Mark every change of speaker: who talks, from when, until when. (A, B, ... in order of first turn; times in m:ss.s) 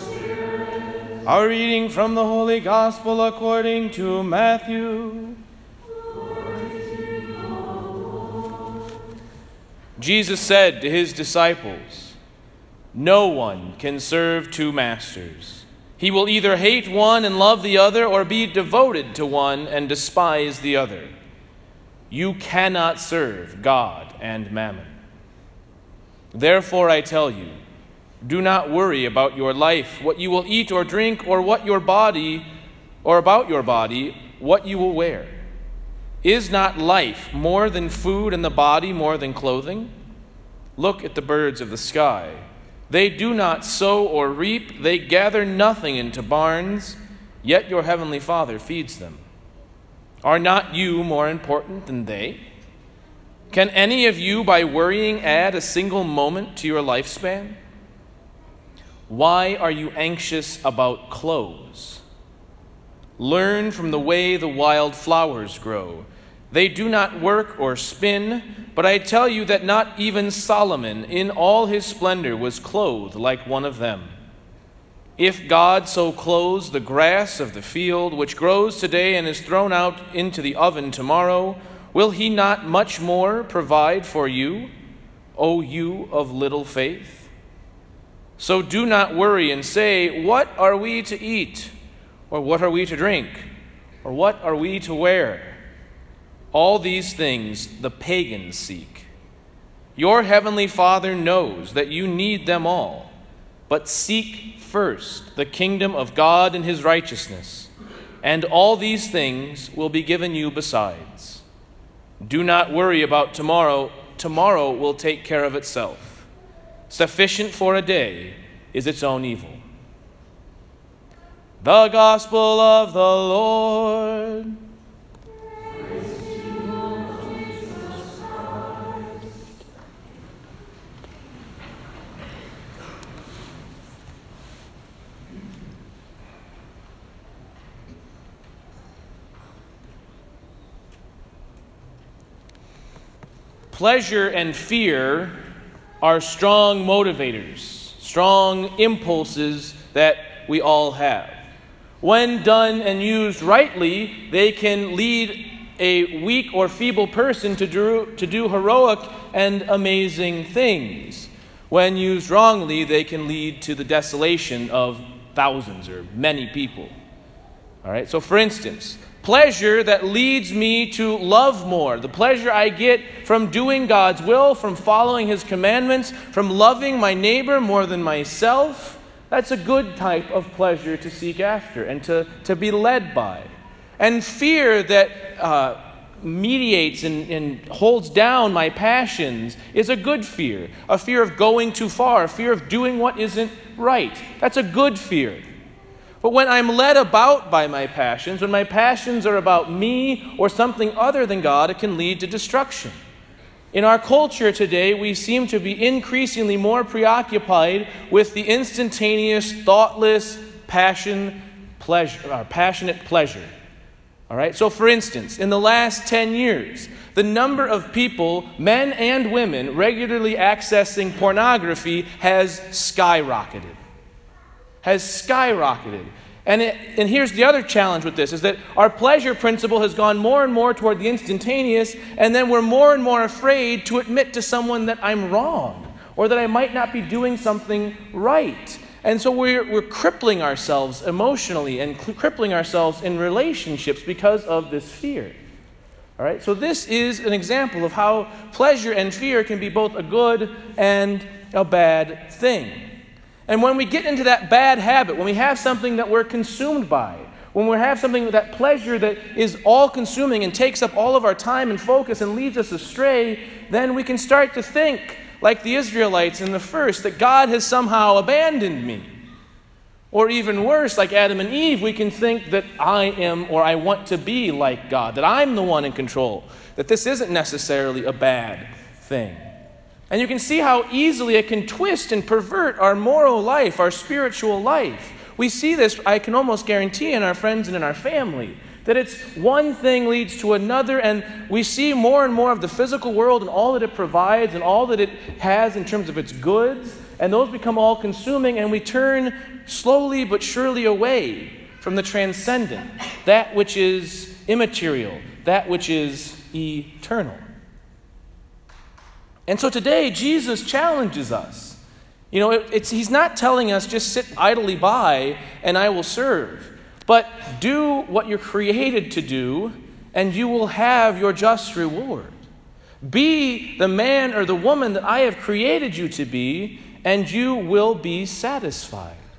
0:01.2-0:05.4 A
0:10.0-0:12.2 A
0:12.9-0:21.1 A
0:22.1-0:24.9 A
0:26.3-0:27.6 A
0:28.2-0:32.4 A
0:33.0-0:35.3 A
0:36.2-0:39.9 A
0:40.8-0:49.2 A
0:50.2-0:52.4 A
0:53.5-0:57.6 A
0:59.1-1:02.0 A
1:03.2-1:14.1 A
1:15.2-1:24.7 A
1:25.4-1:27.3 A
1:28.4-1:31.7 A
1:32.3-1:33.5 A
1:34.0-1:35.6 A
1:36.5-1:39.1 A
1:40.0-1:43.1 A
1:43.7-1:47.7 A
1:48.2-1:51.4 A
1:52.2-1:56.3 A
1:56.9-1:59.6 A
2:01.6-2:04.6 A
2:23.7-2:25.4 A
2:26.0-2:31.4 A
2:32.0-2:46.9 A
2:47.8-3:15.4 A
3:16.2-3:23.0 A
3:23.7-3:33.5 A
3:34.3-3:43.8 A
3:44.8-4:05.4 A
4:06.2-4:12.8 A
4:13.5-4:29.1 A
4:30.1-4:39.5 A
4:40.1-5:07.4 A
5:09.5-5:11.8 A
5:12.3-5:22.4 A
5:23.0-5:29.2 A